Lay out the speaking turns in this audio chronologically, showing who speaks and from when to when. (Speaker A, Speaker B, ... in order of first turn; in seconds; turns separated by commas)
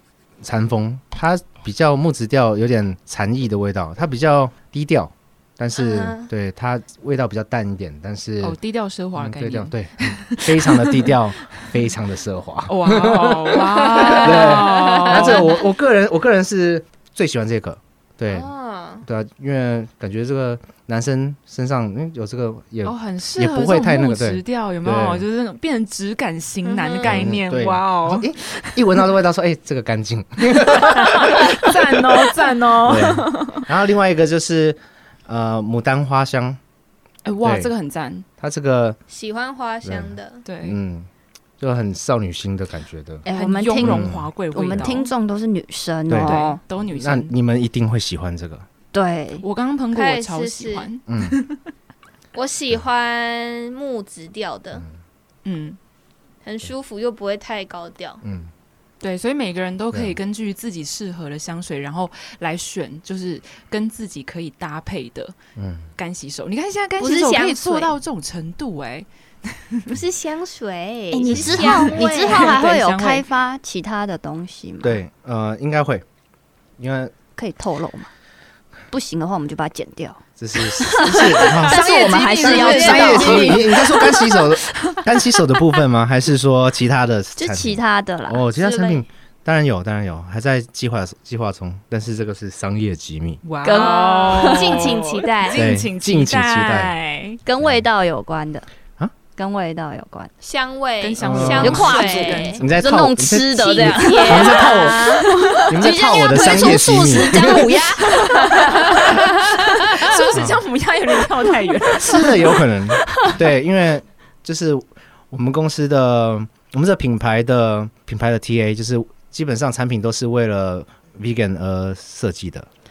Speaker A: 0.4-8.6, Speaker B: 5.8-6.3, Speaker C: 8.4-11.6, Speaker A: 9.2-18.5, Speaker C: 12.7-15.6, Speaker B: 13.9-15.2, Speaker B: 18.3-19.0, Speaker A: 19.0-25.2, Speaker C: 22.8-28.8, Speaker B: 26.6-27.3, Speaker A: 27.0-32.0, Speaker C: 30.8-33.6, Speaker A: 32.8-36.6, Speaker C: 37.2-38.2, Speaker A: 37.4-37.7, Speaker A: 38.4-39.0, Speaker B: 39.1-40.4, Speaker A: 39.8-41.1, Speaker C: 40.4-40.8, Speaker A: 41.6-43.2, Speaker D: 43.2-46.6, Speaker C: 43.2-45.1, Speaker A: 43.8-44.9, Speaker A: 46.1-48.6, Speaker C: 46.2-47.3, Speaker D: 48.9-49.4, Speaker C: 49.4-51.6, Speaker B: 49.9-50.9, Speaker A: 51.1-51.4, Speaker B: 52.3-54.8, Speaker C: 55.4-55.8, Speaker B: 56.4-58.2, Speaker A: 58.2-58.5, Speaker C: 59.0-65.3, Speaker A: 65.5-65.9, Speaker C: 66.0-69.9, Speaker B: 67.0-67.9, Speaker B: 69.9-72.6, Speaker D: 71.1-75.0, Speaker A: 71.3-71.7, Speaker C: 71.6-73.2, Speaker A: 74.8-76.0, Speaker A: 76.8-77.1, Speaker D: 77.3-78.1, Speaker D: 78.9-80.2, Speaker A: 80.4-93.4, Speaker D: 80.8-84.2, Speaker C: 81.0-84.4, Speaker D: 87.4-88.5, Speaker B: 88.5-89.0, Speaker C: 93.4-97.4, Speaker D: 93.6-94.8, Speaker B: 93.6-95.6, Speaker A: 95.5-96.9, Speaker D: 97.4-98.7, Speaker D: 99.3-100.3, Speaker B: 100.4-102.6, Speaker C: 101.0-102.7, Speaker A: 101.2-101.9, Speaker D: 101.5-109.1, Speaker A: 102.6-107.8, Speaker B: 103.6-105.3, Speaker C: 105.3-105.7, Speaker C: 107.5-113.3, Speaker B: 108.3-110.2, Speaker A: 110.3-110.6, Speaker A: 112.0-122.7